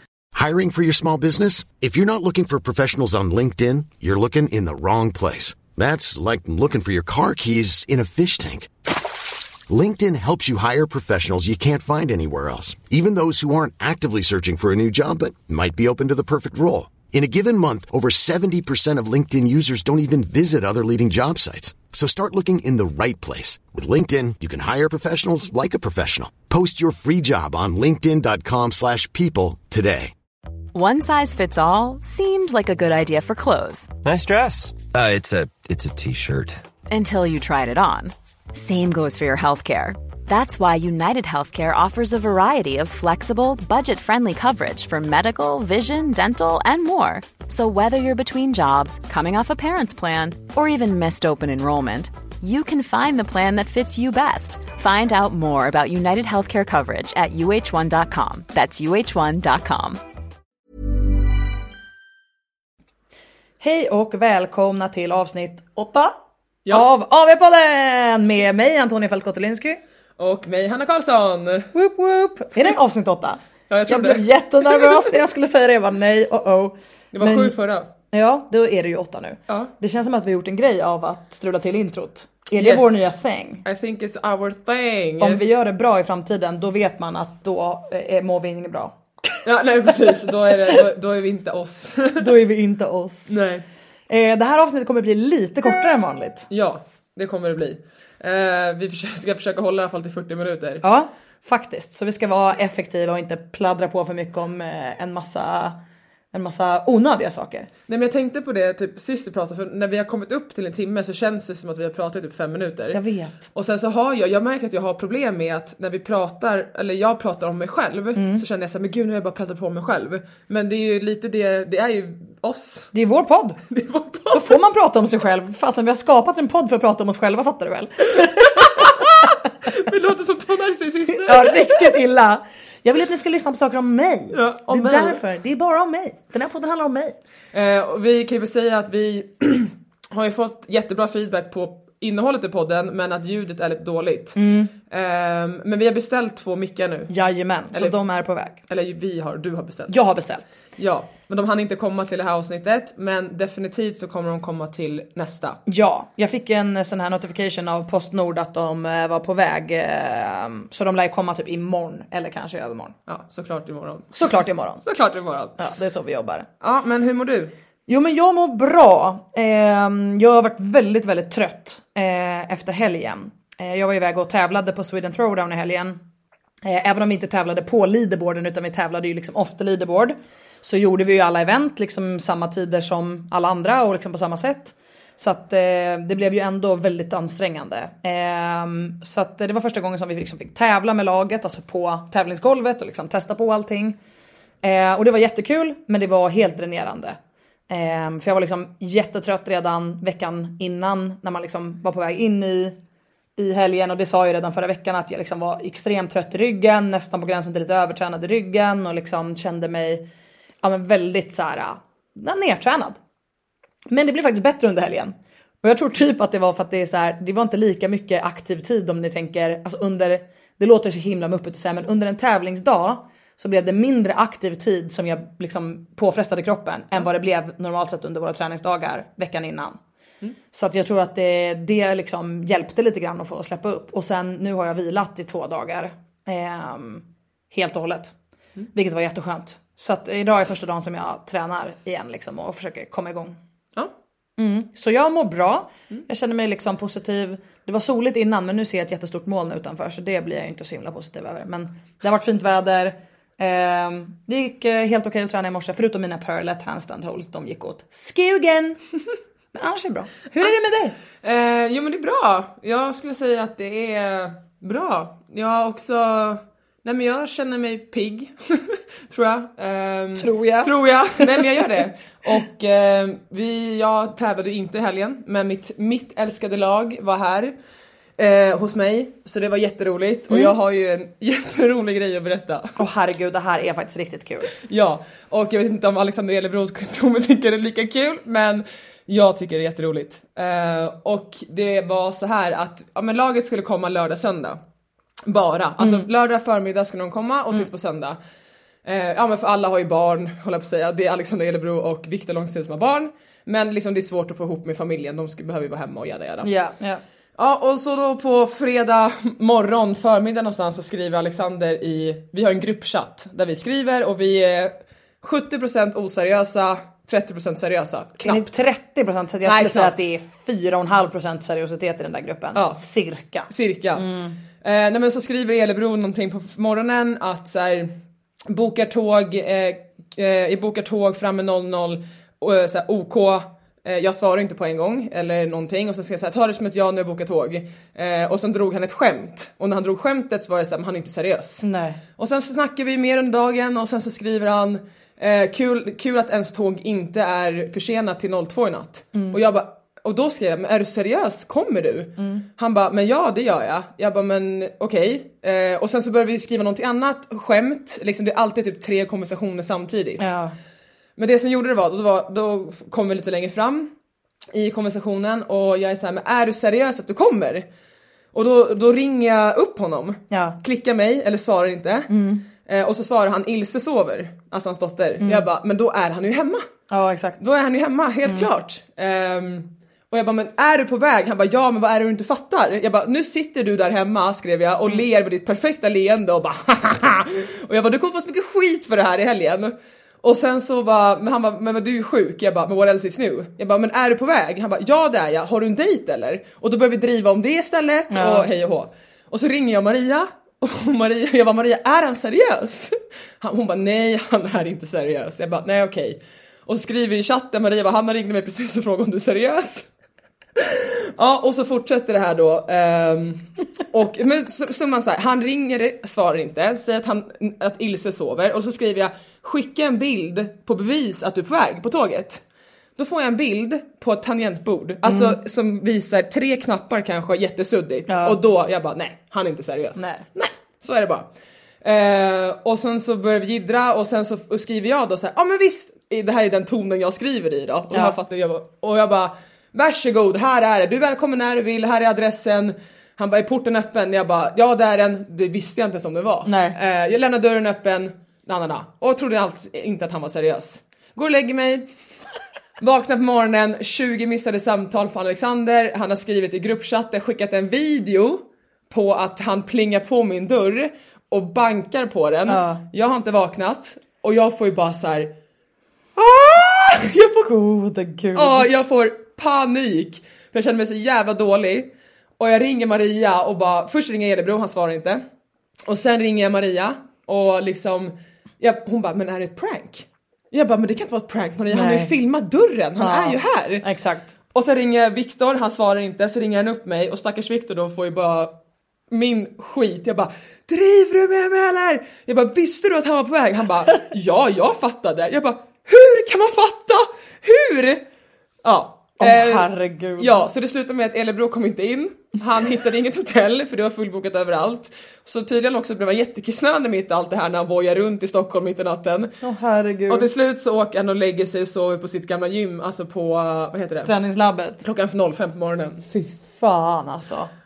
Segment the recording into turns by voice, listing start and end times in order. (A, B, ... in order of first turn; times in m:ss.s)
0:00.3-0:08.7 A
0:09.7-0:30.1 A
0:30.7-0:33.9 B
0:34.0-0:36.6 C
0:36.9-1:00.0 B
1:03.6-1:06.1 D
1:06.7-1:09.8 D
1:10.2-1:11.7 E
1:11.7-1:17.5 D
1:13.7-1:15.1 E
1:17.1-1:17.9 E
1:18.1-1:23.6 D
1:22.6-1:23.0 E
1:23.6-1:25.4 E
1:25.2-1:28.9 D
1:29.4-1:32.3 E
1:32.2-1:33.3 D
1:33.3-1:33.6 E
1:34.1-1:36.5 D
1:36.5-1:40.8 E
1:40.8-1:45.8 D
1:46.3-1:47.7 D
1:47.9-1:53.0 E
1:52.9-1:53.4 D
1:53.5-2:02.9 E
1:58.2-1:58.4 D
2:02.9-2:03.6 D
2:03.7-2:04.6 E
2:04.3-2:09.0 D
2:08.6-2:12.0 E
2:11.1-2:17.2 D
2:14.3-2:15.2 E
2:17.5-2:27.1 E
2:24.4-2:24.7 D
2:27.1-2:28.6 D
2:28.7-2:30.0 E
2:29.9-2:30.5 D
2:30.8-2:35.6 E
2:35.7-2:42.9 D
2:43.1-2:44.2 E
2:44.1-2:44.8 D
2:44.8-2:45.6 E
2:45.6-2:46.5 D
2:46.6-2:47.5 E
2:47.9-2:56.0 D
2:56.6-3:14.0 D
3:14.6-3:17.2 D
3:17.7-3:22.8 D
3:23.4-3:30.0 D
3:30.6-3:33.0 D
3:33.9-3:49.8 D
3:50.5-3:58.1 D
3:58.7-4:03.4 D
4:04.4-4:18.8 D
4:19.5-4:21.0 D
4:21.2-4:37.5 E
4:30.2-4:31.4 D
4:38.2-4:42.8 E
4:42.8-4:44.5 D
4:44.6-4:54.6 E
4:55.2-4:58.2 E
4:55.8-4:56.1 D
4:58.8-5:06.5 E
5:06.4-5:07.0 D
5:07.4-5:18.6 E
5:18.2-5:24.3 D
5:19.4-5:20.0 E
5:22.5-5:22.8 E
5:23.5-5:24.1 E
5:24.6-5:27.9 E
5:28.5-5:41.6 E
5:41.6-5:42.0 D
5:42.2-6:00.4 E
5:52.2-5:52.4 D
6:00.2-6:00.5 D
6:01.2-6:03.9 E
6:04.5-6:07.6 E
6:08.3-6:12.1 E
6:10.3-6:10.6 D
6:12.1-6:12.4 D
6:12.6-6:16.7 E
6:15.2-6:15.4 D
6:16.9-6:17.5 D
6:17.4-6:49.9 E
6:38.1-6:38.5 D
6:50.6-7:02.4 E
7:03.0-7:11.2 E
7:05.0-7:05.4 D
7:08.1-7:08.4 D
7:10.0-7:10.2 D
7:11.8-7:31.8 E
7:17.9-7:18.2 D
7:26.4-7:26.8 D
7:32.8-7:45.3 E
7:42.5-7:42.8 D
7:46.2-7:47.5 E
7:47.4-7:48.6 D
7:48.3-7:55.2 E
7:55.8-8:03.8 E
8:01.7-8:02.1 D
8:03.0-8:04.3 D
8:04.5-8:08.5 E
8:09.1-8:18.0 E
8:18.6-8:29.4 E
8:19.2-8:20.4 D
8:29.4-8:30.3 D
8:30.1-8:34.1 E
8:34.0-8:34.8 D
8:34.8-8:36.0 E
8:36.0-8:37.5 D